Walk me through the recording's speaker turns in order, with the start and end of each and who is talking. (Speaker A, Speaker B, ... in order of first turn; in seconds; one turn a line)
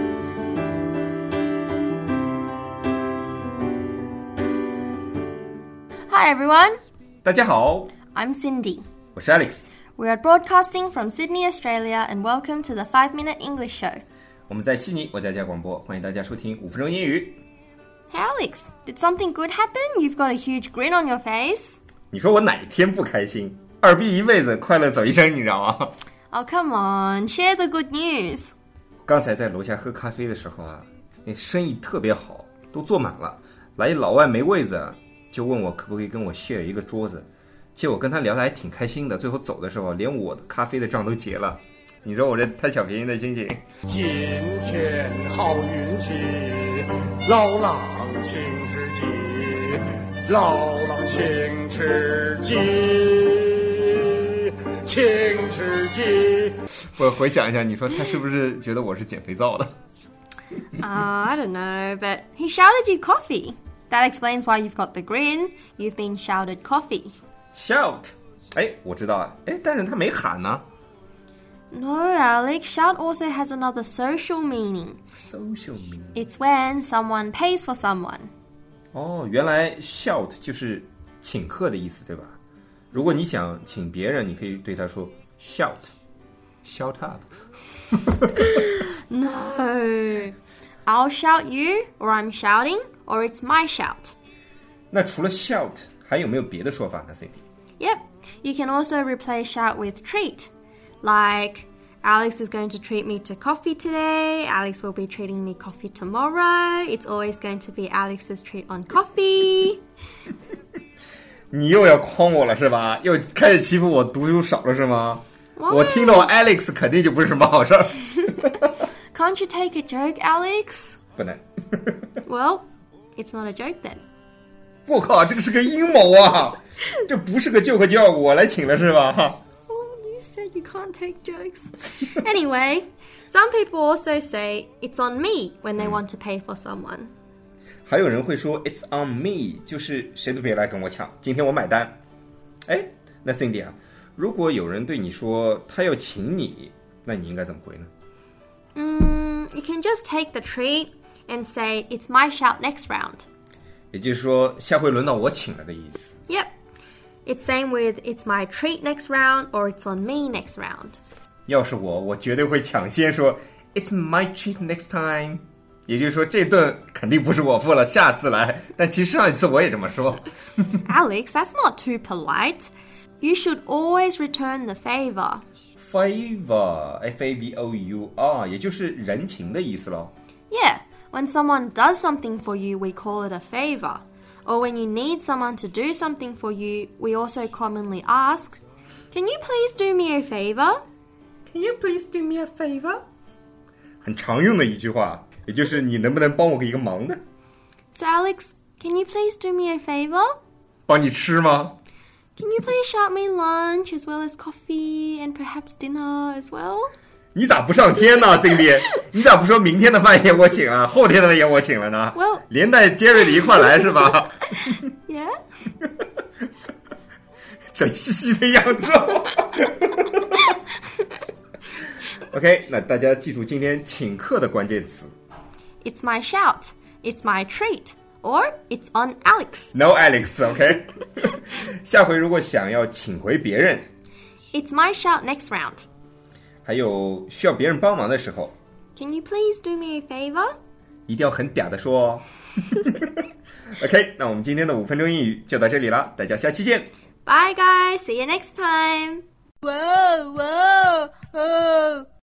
Speaker A: 6.1-6.8
Speaker B: 7.2-7.9
Speaker A: 8.2-8.8
Speaker B: 9.2-9.7
Speaker A: 10.0-14.0
Speaker B: 14.5-17.4
Speaker A: 18.1-21.8
Speaker B: 22.1-25.9
Speaker A: 26.3-28.5
Speaker B: 29.1-43.6
Speaker C: 43.9-56.6
Speaker B: 57.0-59.7
Speaker A: 60.8-67.2
Speaker B: 67.5-70.6
Speaker A: 71.7-75.0
Speaker B: 75.2-76.2
Speaker A: 76.2-78.3
Speaker B: 78.9-82.4
Speaker B: 82.9-85.9
Speaker B: 86.6-87.3
Speaker A: 88.4-94.1
Speaker B: 94.9-97.4
Speaker A: 97.8-100.5
Speaker A: 101.0-109.8
Speaker B: 111.5-118.7
Speaker A: 115.6-116.3
Speaker A: 119.1-121.0
Speaker B: 121.2-121.9
Speaker A: 122.2-124.0
Speaker B: 124.9-129.4
Speaker A: 129.7-137.1
Speaker B: 137.9-142.0
Speaker B: 142.7-147.9
Speaker A: 148.8-153.3
Speaker B: 153.9-156.1
Speaker A: 157.3-161.0
Speaker B: 161.5-170.3
Speaker A: 170.9-175.4
Speaker B: 175.8-180.1
Speaker A: 180.5-188.6
Speaker A: 189.1-190.8
Speaker B: 191.5-193.0
Speaker B: 194.0-197.2
Speaker A: 197.9-200.4
Speaker B: 200.9-201.8
Speaker A: 202.4-206.9
Speaker B: 207.3-214.7
Speaker A: 212.2-212.4
Speaker A: 215.1-215.4
Speaker B: 217.7-220.2
Speaker B: 222.3-225.1
Speaker A: 225.8-229.7
Speaker B: 229.7-233.9
Speaker A: 234.5-235.8
Speaker B: 236.6-238.5
Speaker A: 239.0-240.6
Speaker B: 241.1-243.0
Speaker B: 243.7-246.9
Speaker A: 247.3-252.1